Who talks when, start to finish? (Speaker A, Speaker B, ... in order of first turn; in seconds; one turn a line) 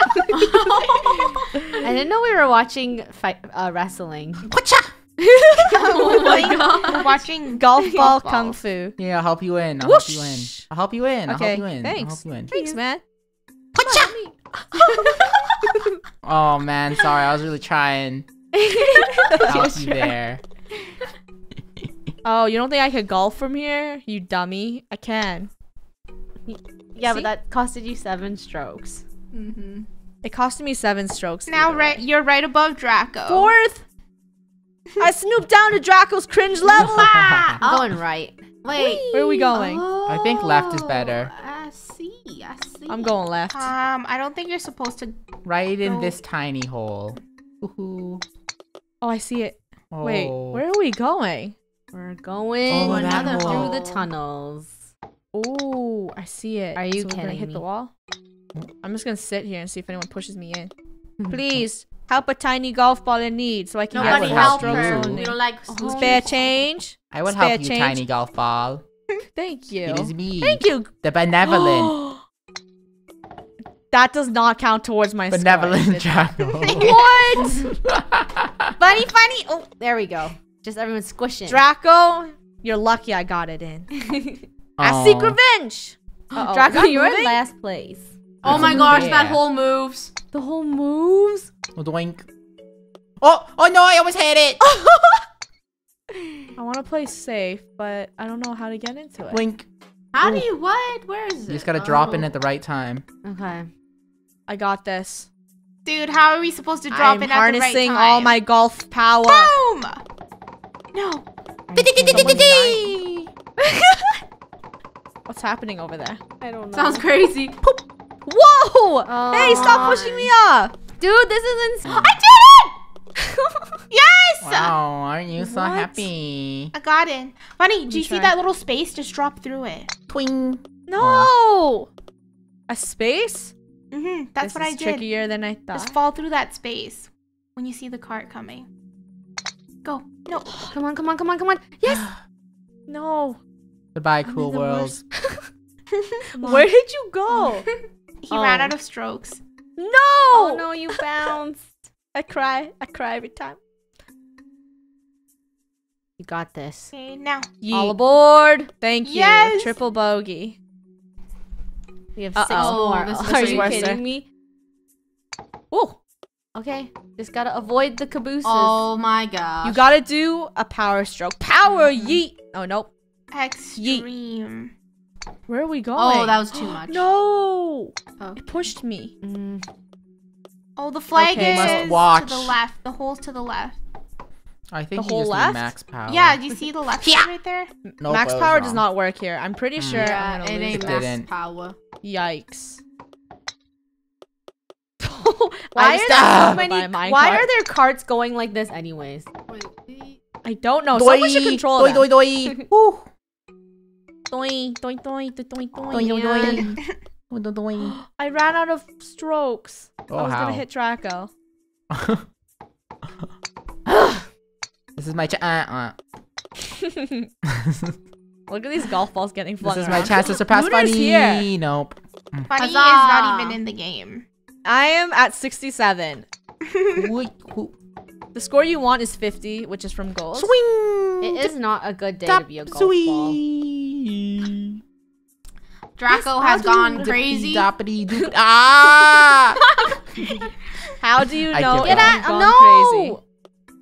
Speaker A: 0.3-1.6
Speaker B: 0.9-1.2
Speaker C: 1.8-4.5
Speaker D: 4.5-4.9
Speaker E: 5.2-9.0
Speaker B: 5.7-8.4
Speaker A: 5.8-7.2
Speaker D: 9.0-12.5
Speaker E: 9.8-10.7
Speaker E: 11.2-13.0
Speaker C: 12.5-12.8
Speaker D: 13.8-14.1
Speaker E: 13.8-15.3
Speaker A: 15.0-15.4
Speaker D: 16.2-18.3
Speaker C: 18.5-20.1
Speaker E: 19.3-19.6
Speaker D: 19.4-20.4
Speaker E: 22.2-25.5
Speaker C: 26.5-29.0
Speaker E: 27.0-27.3
Speaker A: 29.3-29.9
Speaker E: 30.2-32.0
Speaker B: 31.5-33.5
Speaker E: 33.3-33.8
Speaker E: 35.0-37.2
Speaker A: 36.7-38.0
Speaker D: 37.0-37.6
Speaker C: 37.6-39.6
Speaker A: 38.6-43.1
Speaker E: 38.8-39.9
Speaker D: 40.0-41.3
Speaker E: 42.9-43.7
Speaker B: 43.5-45.2
Speaker D: 45.4-48.2
Speaker B: 45.8-46.1
Speaker E: 49.0-51.5
Speaker D: 49.9-50.6
Speaker C: 51.9-54.8
Speaker D: 52.7-53.7
Speaker A: 52.7-54.1
Speaker E: 55.3-57.9
Speaker C: 56.8-57.6
Speaker E: 58.8-60.7
Speaker C: 61.2-61.6
Speaker E: 61.3-68.0
Speaker A: 63.9-66.6
Speaker D: 64.0-65.3
Speaker C: 65.7-66.4
Speaker D: 67.1-68.8
Speaker E: 69.3-70.9
Speaker D: 69.8-72.0
Speaker E: 71.4-72.2
Speaker E: 73.9-77.7
Speaker D: 75.3-78.7
Speaker B: 76.6-76.9
Speaker C: 78.8-81.6
Speaker E: 81.5-83.9
Speaker D: 84.8-85.4
Speaker E: 84.8-87.4
Speaker C: 86.3-88.2
Speaker A: 88.4-90.1
Speaker D: 88.4-89.4
Speaker C: 90.3-91.5
Speaker D: 91.8-92.3
Speaker D: 93.2-94.6
Speaker C: 94.8-95.2
Speaker E: 96.5-99.4
Speaker D: 99.3-99.7
Speaker A: 100.1-102.3
Speaker D: 100.2-100.5
Speaker D: 101.5-103.0
Speaker C: 103.2-103.7
Speaker E: 104.5-105.3
Speaker B: 105.8-108.3
Speaker E: 106.9-109.5
Speaker B: 109.2-110.0
Speaker B: 110.9-111.2
Speaker C: 111.7-113.0
Speaker D: 111.8-113.1
Speaker E: 112.1-112.9
Speaker E: 115.3-116.2
Speaker C: 116.4-117.1
Speaker A: 116.7-117.5
Speaker E: 117.6-120.7
Speaker C: 119.0-120.1
Speaker A: 119.4-120.3
Speaker C: 121.0-122.7
Speaker D: 121.8-122.2
Speaker B: 123.9-124.8
Speaker D: 124.4-126.7
Speaker E: 125.4-126.1
Speaker B: 126.7-129.9
Speaker E: 127.9-128.4
Speaker D: 130.1-131.3
Speaker E: 130.9-131.9
Speaker E: 132.7-133.5
Speaker B: 133.9-135.1
Speaker E: 134.4-136.0
Speaker B: 135.7-138.7
Speaker B: 139.8-140.7
Speaker C: 140.6-142.1
Speaker E: 142.9-143.4
Speaker D: 143.9-145.0
Speaker E: 144.2-145.1
Speaker E: 146.3-147.7
Speaker B: 148.2-149.4
Speaker C: 148.3-148.7
Speaker E: 149.8-150.7
Speaker C: 150.3-151.7
Speaker E: 152.1-153.6
Speaker C: 156.2-156.9
Speaker B: 156.9-157.5
Speaker E: 157.6-158.0
Speaker C: 157.7-158.7
Speaker E: 158.8-160.6
Speaker B: 159.0-159.7
Speaker C: 162.2-164.3
Speaker E: 162.3-164.1
Speaker A: 162.5-164.0
Speaker E: 165.7-166.0
Speaker C: 166.5-168.9
Speaker A: 168.4-169.9
Speaker E: 169.6-172.9
Speaker C: 171.7-172.2
Speaker B: 173.3-174.7
Speaker E: 173.8-174.1
Speaker E: 175.5-179.1
Speaker A: 176.0-177.1
Speaker C: 179.2-179.6
Speaker B: 180.8-183.8
Speaker E: 181.1-182.0
Speaker D: 181.3-182.6
Speaker D: 184.7-186.4
Speaker E: 184.9-185.7
Speaker B: 186.1-187.7
Speaker D: 187.0-187.3
Speaker E: 187.9-191.1
Speaker D: 188.0-188.9
Speaker D: 189.8-190.2
Speaker A: 189.9-191.8
Speaker D: 190.7-191.3
Speaker E: 192.0-192.8
Speaker E: 195.0-197.5
Speaker C: 195.8-199.3
Speaker D: 196.0-196.6
Speaker A: 199.5-200.2
Speaker E: 200.4-202.1
Speaker D: 200.9-203.1
Speaker E: 204.3-206.7
Speaker C: 205.8-206.7
Speaker D: 205.9-208.0
Speaker E: 208.1-211.3
Speaker D: 210.1-210.7
Speaker D: 211.9-212.2
Speaker D: 215.0-216.0
Speaker D: 217.7-217.9
Speaker E: 218.5-221.5
Speaker D: 219.6-222.5
Speaker B: 222.5-224.2
Speaker A: 222.5-223.6
Speaker E: 224.6-226.3
Speaker D: 226.9-227.7
Speaker E: 228.3-230.5
Speaker D: 230.3-231.5
Speaker C: 231.2-233.4
Speaker D: 232.2-234.8
Speaker A: 236.0-237.7
Speaker E: 236.1-237.2
Speaker D: 237.0-239.6
Speaker A: 239.8-240.5
Speaker E: 241.0-243.2
Speaker D: 241.5-242.2
Speaker C: 241.8-243.2